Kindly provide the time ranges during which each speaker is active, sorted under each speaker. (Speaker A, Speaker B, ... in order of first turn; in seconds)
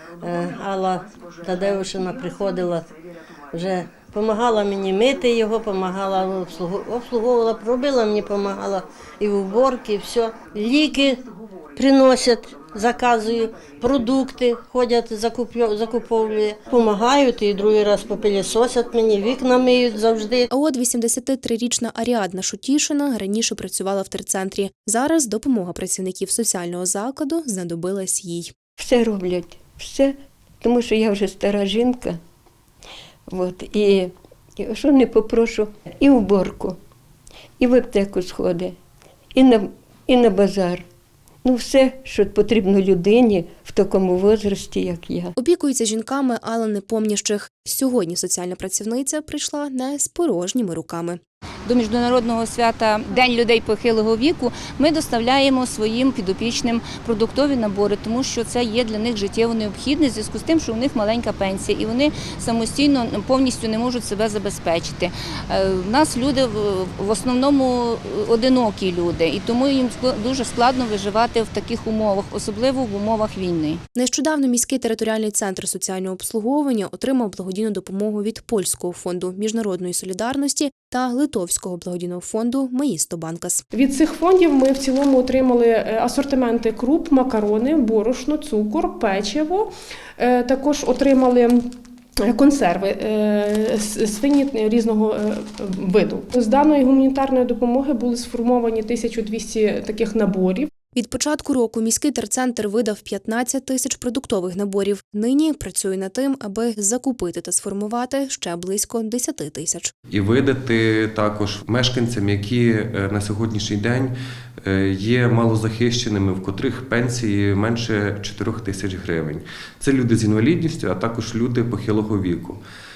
Speaker A: 0.2-2.9, 3.5-11.2, 11.8-20.5
Speaker B: 20.5-28.5, 45.4-51.2, 73.9-83.6, 100.9-109.9
Speaker C: 28.8-32.2, 33.3-36.8, 37.6-38.7, 39.3-40.8, 41.4-45.3
Speaker D: 51.6-73.8
Speaker E: 83.7-100.7
Speaker F: 110.1-122.6